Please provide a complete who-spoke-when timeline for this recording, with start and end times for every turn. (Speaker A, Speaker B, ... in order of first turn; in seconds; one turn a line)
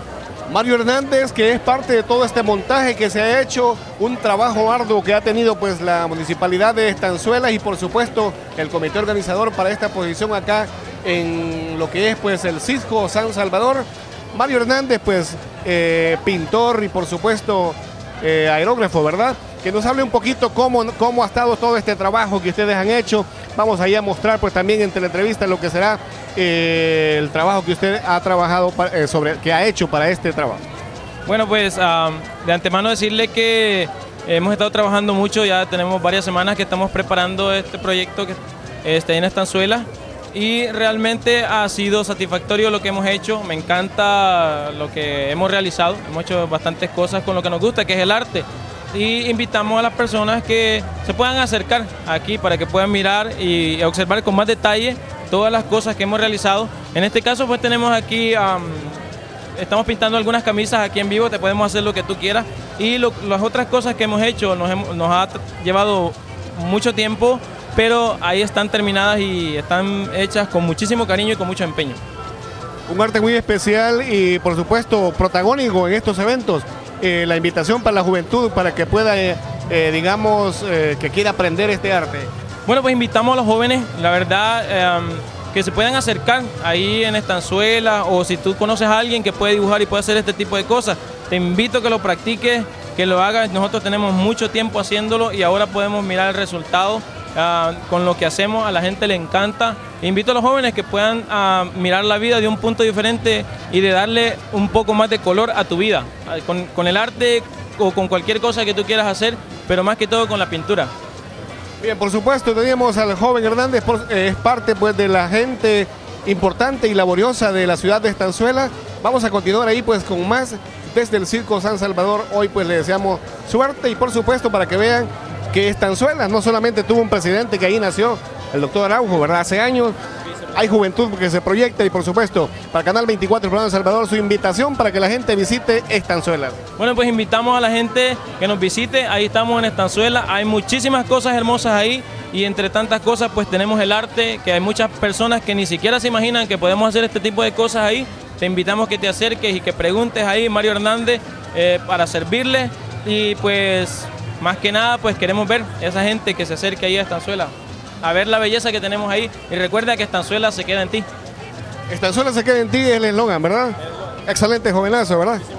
Speaker A: 0.5-30.6
Speaker B: 31.3-59.0
Speaker B: 59.6-72.0
Speaker A: 72.9-82.3
Speaker B: 82.7-110.9
Speaker A: 111.8-130.0
Speaker A: 130.5-136.6
Speaker B: 136.8-161.1
Speaker A: 161.9-163.8
Speaker A: 164.3-165.4